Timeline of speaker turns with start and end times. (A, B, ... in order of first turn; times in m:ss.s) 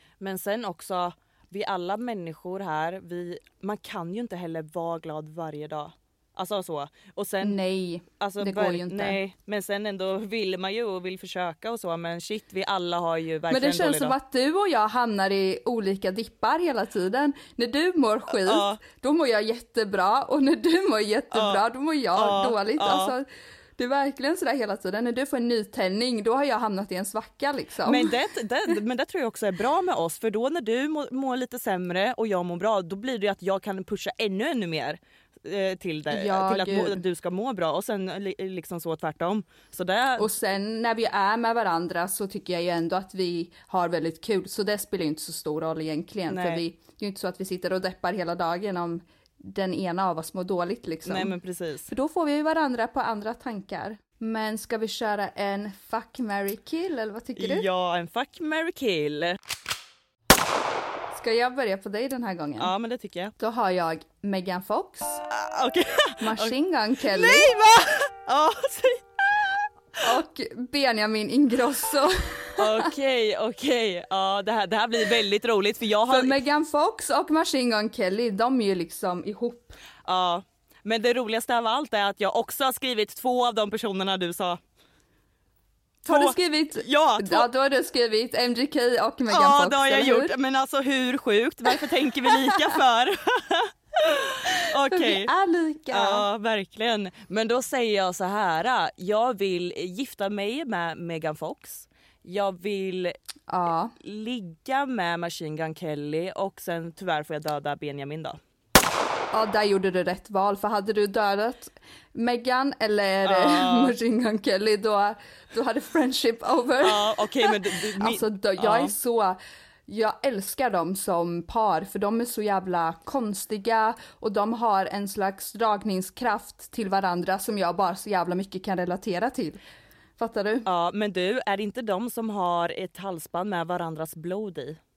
0:00.2-0:07.6 A
0:07.4-0:09.2 B
0:08.2-0:14.2 A
0:13.5-0:23.2 B
0:18.3-0:18.8 A
0:21.3-0:21.6 A
0:22.1-0:23.1 A
0:23.8-0:28.1 B
0:27.8-0:40.3 A
0:36.1-0:37.0 B
0:40.2-0:51.4 B
0:46.3-0:46.6 A
0:51.0-0:51.9 A
0:51.9-0:57.7 B
0:57.4-0:59.4 A
1:01.1-1:02.7 B
1:02.6-1:03.3 A
1:03.4-1:05.2 B
1:05.3-1:09.3 A
1:06.2-1:07.5 B
1:10.0-1:12.9 B
1:12.6-1:16.3 A
1:16.1-1:19.8 B
1:20.0-1:24.6 A
1:26.0-1:27.5 A
1:26.0-1:30.3 B
1:29.3-1:35.3 A
1:34.9-1:36.3 B
1:35.9-1:43.2 A
1:43.5-1:43.9 B
1:44.0-1:48.4 A
1:49.3-2:09.6 B
1:53.2-1:54.0 A
1:56.8-1:58.9 A
2:10.2-2:10.7 B
2:10.6-2:14.8 A